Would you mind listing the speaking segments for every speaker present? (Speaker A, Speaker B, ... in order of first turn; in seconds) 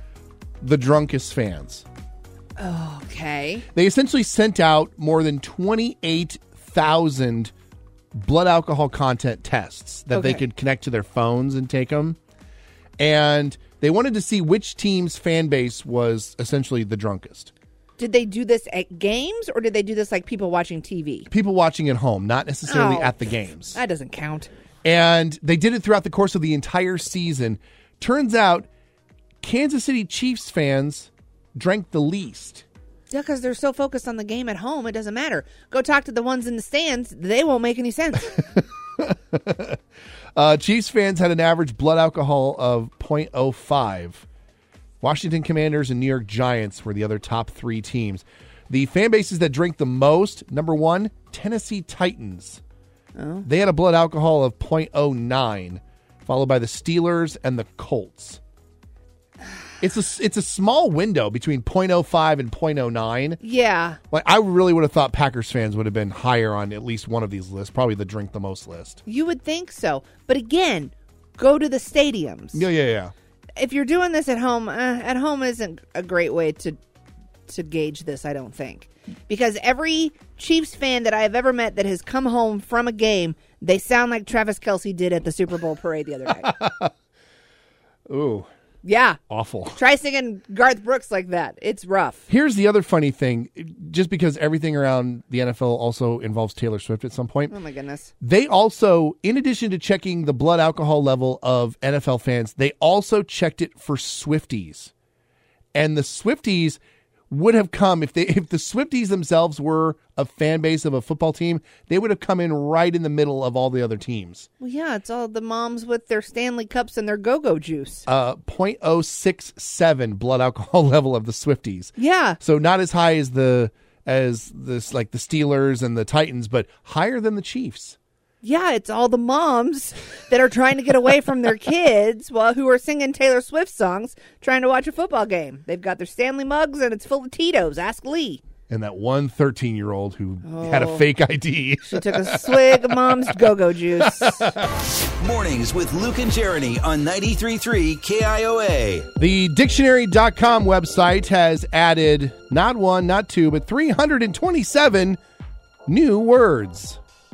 Speaker A: 0.6-1.8, 3.7-7.5, 8.1-12.2, 13.0-17.5, 21.3-23.8, 24.8-28.7, 29.4-32.6, 38.5-39.8, 40.3-44.2, 45.0-52.6, 53.4-58.4, 59.8-63.4, 64.1-69.0, 72.5-73.1, 86.4-86.9, 88.1-88.5, 89.3-89.8, 92.3-97.5, 98.2-104.9, 105.7-114.5, 118.1-128.0, 138.7-143.3, 144.0-144.7, 149.2-155.2, 155.9-157.0
Speaker B: 2.6-3.6, 10.1-10.4, 18.0-21.3, 22.7-24.5, 33.1-38.3, 53.1-53.5, 63.4-64.0, 69.0-72.7, 73.5-76.8, 77.5-86.5, 88.8-89.2, 89.8-92.3, 97.5-98.1, 114.6-118.0, 122.0-122.4, 128.4-138.4, 140.4-141.1, 141.8-144.4
Speaker C: 145.2-149.1